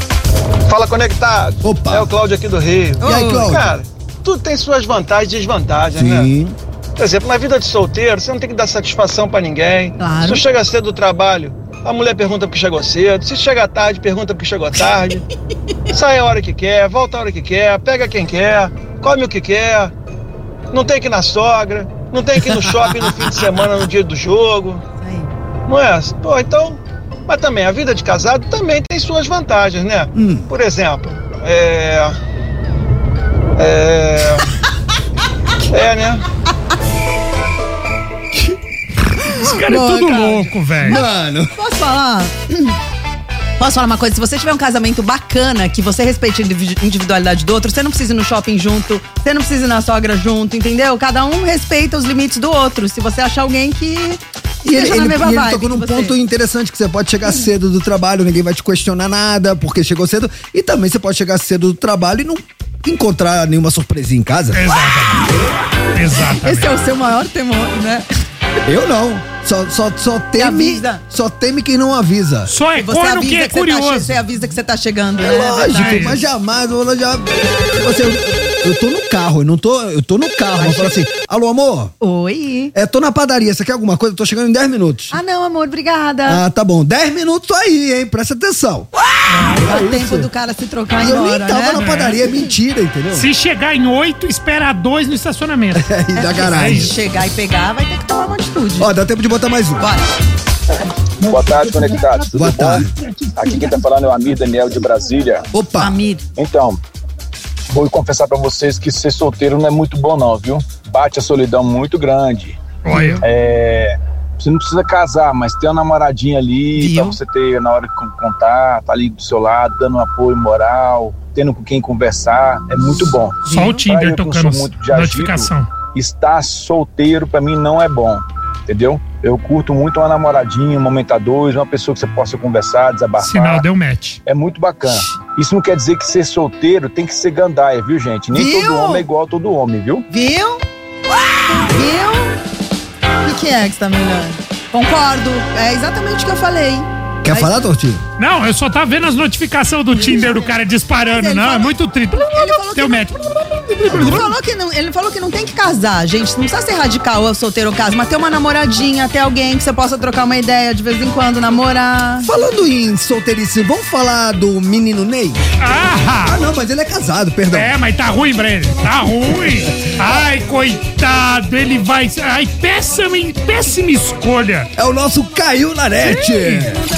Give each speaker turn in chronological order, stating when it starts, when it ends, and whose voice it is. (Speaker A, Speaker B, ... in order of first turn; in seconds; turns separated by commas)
Speaker A: 0.7-6.3, Speaker B: 1.6-2.1, Speaker C: 3.0-3.6, Speaker B: 3.0-3.7, Speaker B: 6.0-6.5, Speaker A: 7.0-15.2, Speaker C: 10.0-10.4, Speaker A: 15.9-19.9, Speaker A: 20.7-24.8, Speaker C: 25.0-25.3, Speaker A: 25.7-32.1, Speaker B: 30.1-30.5, Speaker A: 33.6-34.5, Speaker A: 35.7-36.2, Speaker D: 39.3-41.0, Speaker C: 39.3-42.7, Speaker B: 40.8-41.5, Speaker C: 43.6-56.1, Speaker B: 54.6-64.7, Speaker D: 64.5-65.3, Speaker D: 65.9-66.7, Speaker C: 66.4-68.0, Speaker B: 68.7-72.5, Speaker C: 70.4-71.0, Speaker D: 72.5-74.2, Speaker C: 72.8-76.2, Speaker B: 75.2-81.9, Speaker D: 75.7-76.2, Speaker C: 80.5-80.9, Speaker C: 82.0-82.7, Speaker B: 82.7-85.2, Speaker C: 85.1-86.4, Speaker B: 86.2-88.9, Speaker D: 89.3-89.6, Speaker B: 89.5-90.3, Speaker C: 89.5-91.8, Speaker B: 91.0-93.3, Speaker D: 91.7-92.2, Speaker D: 93.1-96.9, Speaker B: 95.7-96.9, Speaker C: 96.1-98.9, Speaker B: 98.8-99.9, Speaker C: 99.8-100.0, Speaker E: 101.2-105.5, Speaker B: 102.2-102.9, Speaker B: 105.5-106.0, Speaker C: 105.8-106.2, Speaker E: 106.3-106.8, Speaker E: 107.7-112.7, Speaker D: 112.8-113.2, Speaker C: 112.9-113.2, Speaker E: 113.2-133.6, Speaker C: 116.7-117.2, Speaker C: 123.4-123.8, Speaker D: 123.5-125.7, Speaker D: 133.2-134.2, Speaker E: 134.2-140.1, Speaker C: 134.8-135.1, Speaker C: 138.3-139.1, Speaker C: 140.1-140.6, Speaker C: 141.5-142.4, Speaker C: 143.2-147.5, Speaker B: 147.2-148.0, Speaker D: 148.2-154.3, Speaker C: 149.9-153.2, Speaker B: 153.9-154.3, Speaker C: 153.9-162.3, Speaker B: 162.2-165.4, Speaker D: 165.6-166.4, Speaker B: 166.2-167.7, Speaker D: 167.5-174.7, Speaker B: 174.8-176.8, Speaker D: 176.3-176.6